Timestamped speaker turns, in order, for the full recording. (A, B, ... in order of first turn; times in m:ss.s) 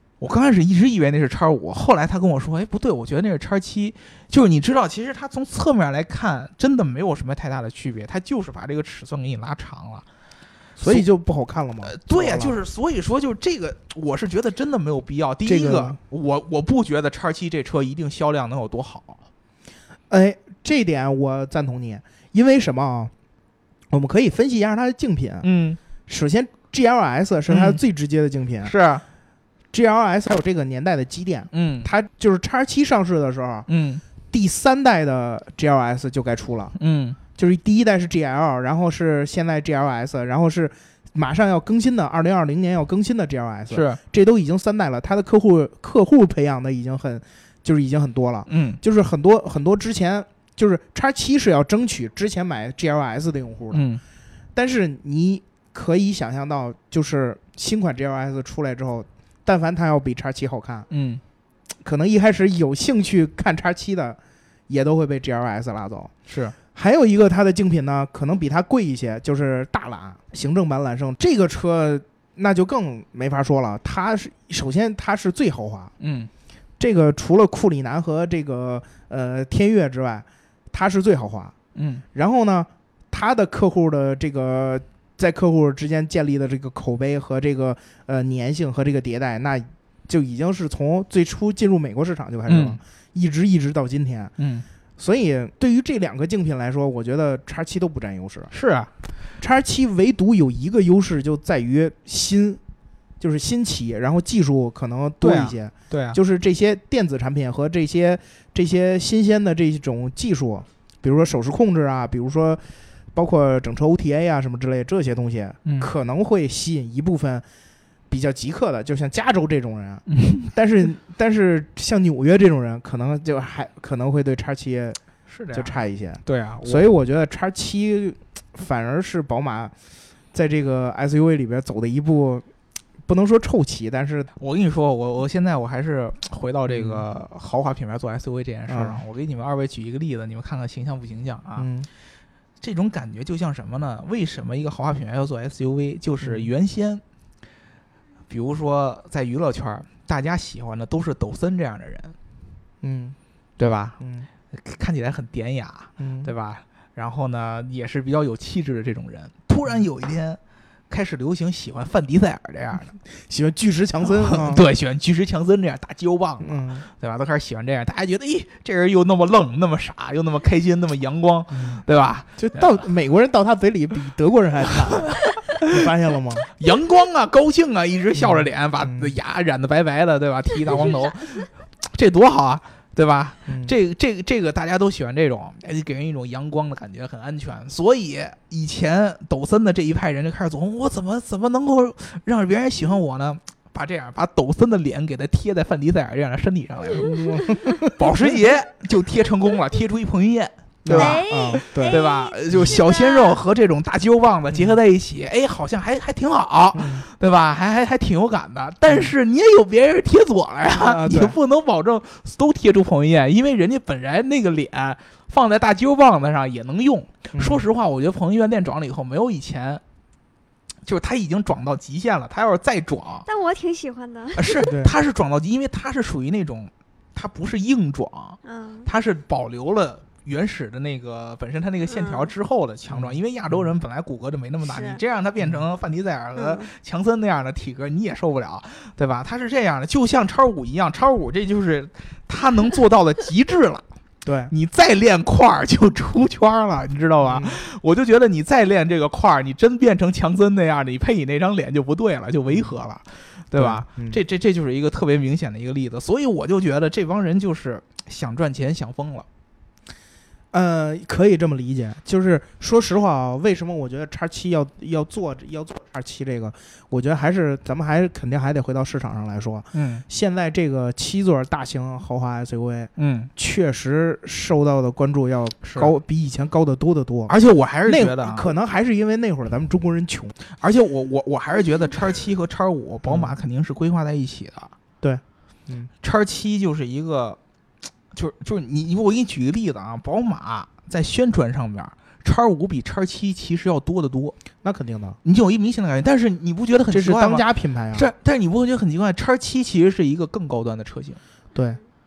0:00.2-0:10.0 A
0:10.8-0:12.6 B
0:11.8-0:19.2 A
0:15.5-0:16.0 B
0:20.1-0:23.1 B
0:23.9-0:25.5 B
0:25.4-0:25.8 A
0:26.1-0:28.7 B
0:27.5-0:27.8 A
0:28.6-0:29.0 A
0:29.7-0:33.7 B
0:31.5-0:31.9 A
0:33.7-0:34.0 A
0:34.3-0:36.8 B
0:36.8-0:37.2 A
0:37.4-0:53.8 B
0:43.7-0:44.0 A
0:48.5-0:48.8 A
0:53.7-0:54.0 A
0:54.6-1:00.9 B
1:00.9-1:01.2 A
1:01.8-1:06.1 B
1:06.3-1:06.6 A
1:06.7-1:15.9 B
1:16.0-1:16.3 A
1:16.8-1:21.5 B
1:21.8-1:22.0 A
1:22.1-1:34.3 B
1:32.5-1:32.8 A
1:34.4-1:34.6 A
1:35.0-1:38.5 B
1:38.5-1:38.9 A
1:39.4-1:42.6 B
1:43.2-1:52.6 B
1:45.2-1:46.2 A
1:53.1-1:57.4 B
1:55.6-1:55.9 A
1:58.1-2:05.0 B
2:00.1-2:00.5 A
2:05.3-2:06.9 A
2:05.5-2:09.7 B
2:10.3-2:12.4 B
2:13.1-2:14.3 B
2:14.4-2:21.7 A
2:16.7-2:17.0 B
2:18.7-2:19.0 B
2:21.6-2:21.9 B
2:22.6-2:27.0 A
2:26.2-2:26.5 B
2:28.3-2:32.2 A
2:32.8-2:33.2 B
2:33.6-2:34.0 A
2:34.0-2:34.3 B
2:34.5-2:40.4 A
2:36.0-2:36.3 B
2:40.9-2:43.0 A
2:43.1-2:44.6 B
2:44.0-2:52.7 A
2:46.4-2:46.9 B
2:51.5-2:51.8 B
2:52.4-2:56.4 B
2:56.6-3:39.8 A
2:58.2-2:59.2 B
3:03.5-3:03.7 B
3:17.0-3:18.4 B
3:20.8-3:22.8 B
3:20.9-3:23.4 C
3:24.5-3:24.8 B
3:26.7-3:27.1 B
3:28.9-3:29.1 B
3:30.8-3:31.4 B
3:37.3-3:37.7 B
3:40.9-3:43.3 A
3:43.3-3:44.6 C
3:44.4-4:03.8 A
3:44.6-3:44.9 B
3:48.4-3:48.9 C
3:51.9-3:52.3 C
3:52.9-3:53.7 B
3:54.6-3:55.0 C
3:56.4-3:56.7 C
4:04.2-4:04.5 B
4:04.5-4:19.3 A
4:07.2-4:07.6 B
4:13.6-4:14.2 B
4:20.5-4:37.3 B
4:29.7-4:30.0 A
4:33.0-4:33.3 A
4:35.6-4:35.9 A
4:37.3-4:38.5 A
4:37.9-4:40.3 B
4:40.6-4:44.7 A
4:43.1-4:43.4 B
4:45.0-4:45.9 B
4:46.0-4:47.4 A
4:48.1-4:54.4 A
4:54.6-4:55.2 B
4:55.2-5:01.2 A
4:56.9-4:58.1 B
5:01.6-5:01.8 B